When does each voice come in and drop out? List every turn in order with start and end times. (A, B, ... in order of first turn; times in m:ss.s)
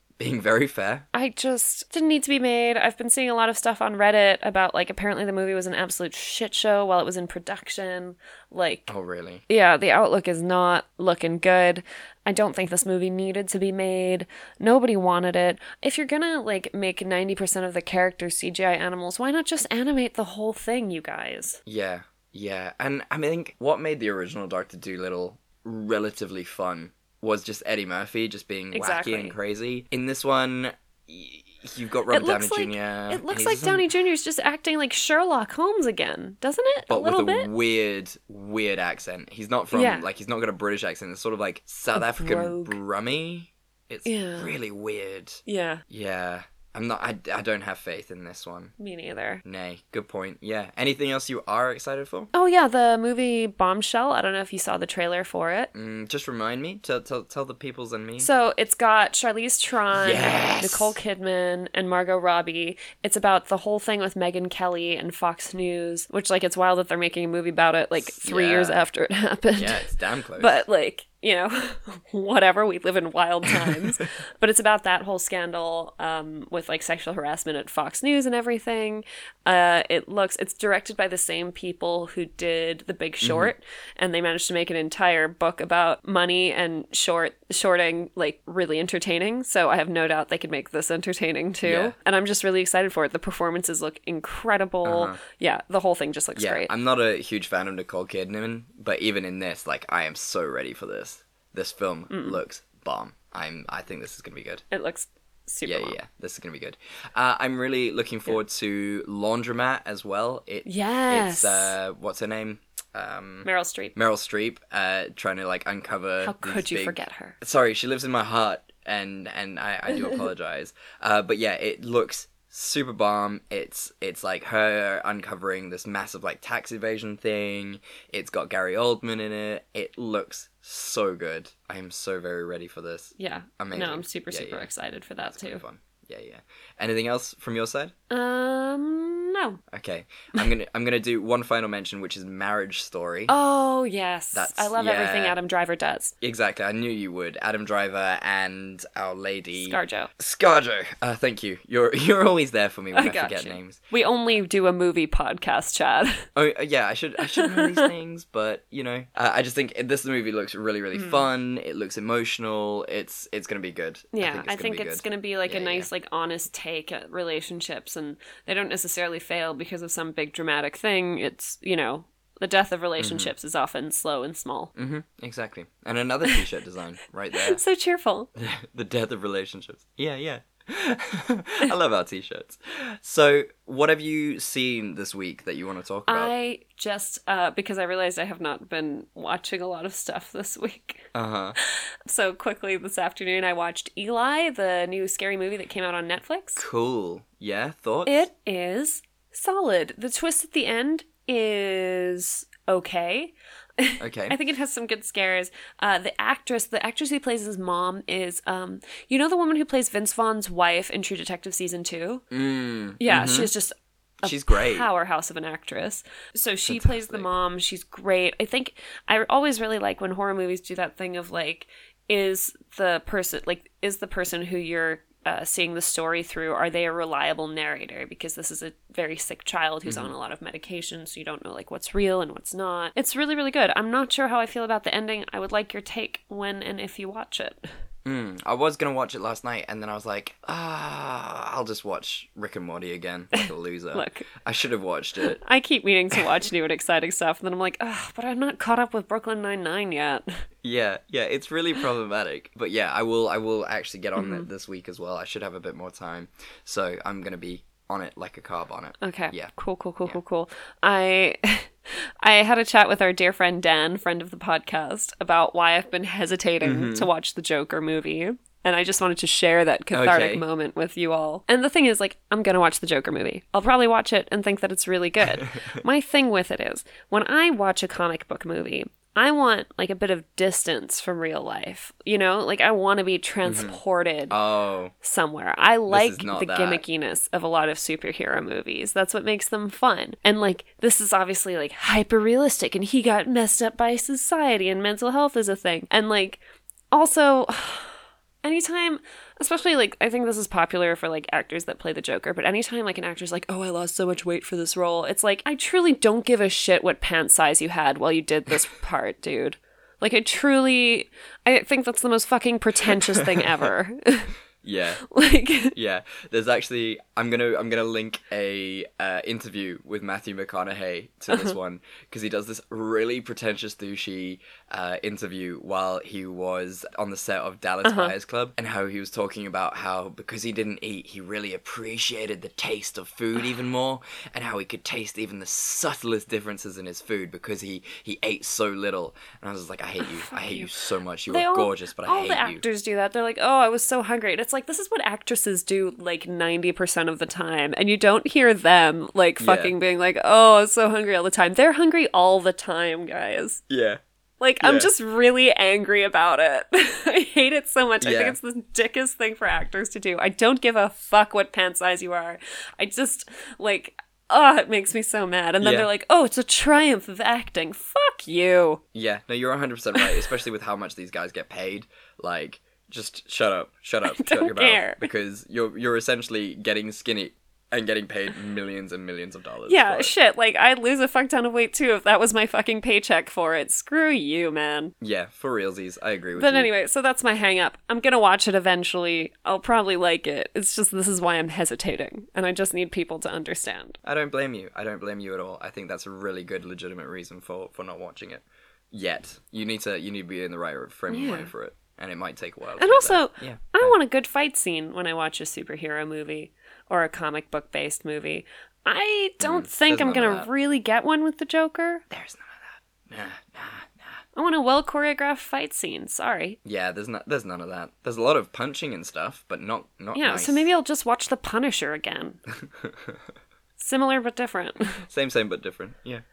0:00.2-0:01.1 A
0:01.1-0:08.9 B
0:08.9-0:09.4 A
0:09.5-0:21.6 B
0:21.6-0:33.9 A
0:28.7-0:29.4 B
0:32.1-0:37.5 B
0:36.9-0:48.7 A
0:39.7-0:40.1 B
0:41.9-0:42.8 B
0:44.0-0:44.5 B
0:45.4-0:45.8 B
0:48.8-0:49.4 B
0:49.4-0:52.3 A
0:52.3-0:55.7 B
0:55.7-0:58.3 A
0:58.2-1:36.7 B
0:59.9-1:00.9 A
1:07.9-1:08.9 A
1:09.5-1:10.6 A
1:23.2-1:23.5 A
1:31.6-1:31.9 A
1:34.8-1:35.2 A
1:36.4-1:44.6 A
1:42.1-1:42.4 B
1:44.7-1:46.0 B
1:45.6-2:14.7 A
1:50.6-1:51.8 B
1:53.4-1:53.9 B
1:56.2-1:57.4 B
1:59.9-2:00.2 B
2:13.2-2:15.6 B
2:15.3-2:17.9 A
2:18.1-2:19.6 B
2:19.7-2:23.3 A
2:23.3-2:26.1 B
2:24.3-2:25.4 A
2:26.2-2:33.8 A
2:29.6-2:30.1 B
2:32.9-2:36.2 B
2:36.4-2:45.9 A
2:37.3-2:37.9 B
2:40.9-2:41.2 B
2:44.1-2:54.7 B
2:53.0-2:53.3 A
2:54.7-2:57.6 A
2:57.4-2:58.3 B
2:58.3-3:06.3 A
3:06.1-3:11.1 B
3:11.1-3:11.6 A
3:11.6-3:16.6 B
3:16.6-3:18.3 A
3:18.0-3:32.2 B
3:24.0-3:24.4 A
3:32.3-3:33.5 A
3:33.0-3:57.6 B
3:34.2-3:34.9 A
3:36.6-3:37.3 A
3:49.8-3:50.1 A
3:58.0-4:05.4 A
4:03.3-4:04.3 B
4:05.2-4:10.2 B
4:10.6-4:20.2 A
4:14.2-4:14.5 B
4:19.0-4:44.4 B
4:26.6-4:27.1 A
4:29.9-4:30.4 A
4:35.2-4:35.8 A
4:43.4-4:44.9 A
4:44.9-4:56.4 B
4:45.9-4:46.8 A
4:56.9-5:14.4 B
5:12.8-5:13.4 A
5:14.6-5:15.0 A
5:15.0-5:15.7 B
5:15.7-5:42.6 A
5:21.3-5:21.6 B
5:27.8-5:28.1 B
5:40.0-5:40.7 B
5:41.3-5:53.6 B
5:49.4-5:49.7 A
5:53.7-5:54.0 A
5:54.4-6:08.8 B
5:54.6-5:54.9 A
5:58.0-5:58.4 A
6:05.6-6:05.9 A
6:08.9-6:20.1 A
6:09.9-6:10.3 B
6:14.1-6:15.1 B
6:19.7-6:24.9 B
6:25.0-6:26.7 A
6:26.3-6:34.0 B
6:34.0-6:43.9 A
6:41.1-6:41.5 B
6:42.8-6:52.0 B
6:49.4-6:50.5 A
6:52.1-6:54.2 A
6:54.3-6:56.6 B
6:56.6-7:00.7 A
7:00.1-7:02.4 B
7:02.6-7:03.2 A
7:03.8-7:05.0 B
7:04.9-7:06.2 A